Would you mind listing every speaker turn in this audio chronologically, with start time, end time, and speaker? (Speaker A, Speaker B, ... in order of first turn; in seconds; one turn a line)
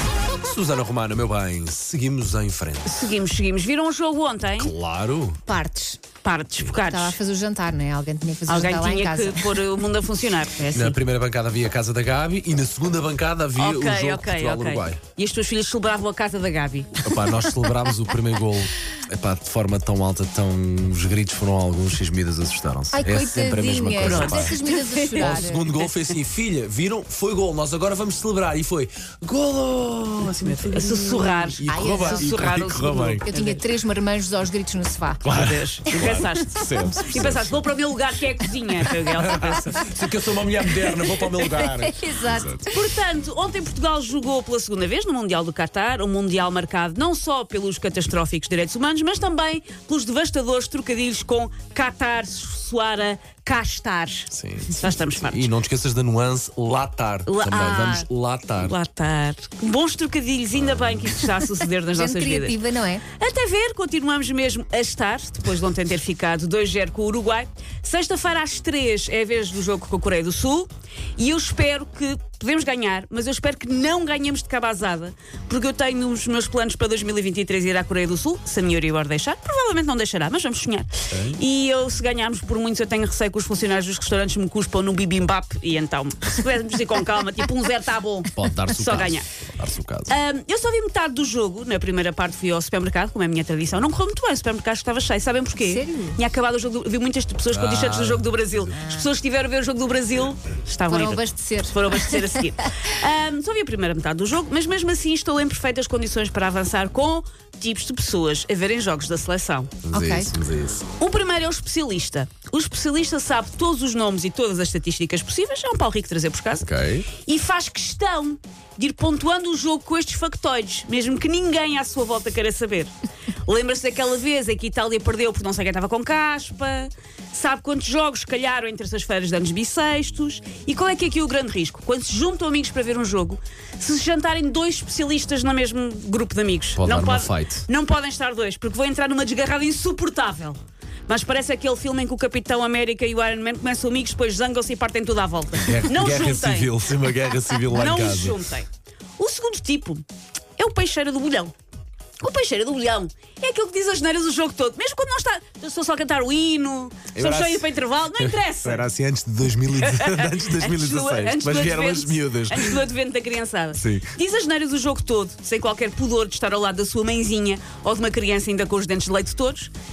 Speaker A: 0.4-3.1
Speaker B: 2.9-4.7
Speaker A: 4.5-5.4
Speaker C: 5.5-6.0
Speaker B: 6.2-7.2
Speaker C: 6.8-9.5
Speaker B: 8.5-11.0
Speaker A: 10.7-15.0
Speaker B: 13.6-16.9
Speaker A: 17.0-33.2
Speaker C: 22.9-25.7
Speaker B: 24.0-25.9
Speaker B: 30.4-33.6
Speaker C: 31.6-32.5
Speaker C: 33.2-35.3
Speaker A: 35.2-37.7
Speaker B: 35.3-39.9
Speaker C: 35.9-36.9
Speaker A: 38.8-42.7
Speaker C: 41.0-42.8
Speaker B: 42.7-55.5
Speaker A: 54.3-58.7
Speaker B: 57.3-62.6
Speaker A: 60.5-61.2
Speaker C: 61.9-63.0
Speaker B: 63.1-89.3
Speaker A: 81.1-81.4
Speaker A: 88.3-90.2
Speaker B: 90.1-109.7
Speaker C: 95.6-96.2
Speaker A: 97.5-98.8
Speaker C: 98.8-99.1
Speaker C: 100.9-102.9
Speaker A: 109.8-110.8
Speaker C: 109.9-110.3
Speaker B: 111.0-116.7
Speaker A: 116.6-117.1
Speaker B: 117.2-122.9
Speaker B: 123.4-146.7
Speaker A: 136.8-137.7
Speaker A: 145.6-148.4
Speaker B: 147.7-150.0
Speaker B: 150.6-151.5
Speaker B: 152.2-158.9
Speaker A: 157.1-162.9
Speaker B: 159.8-169.7
Speaker A: 163.7-164.1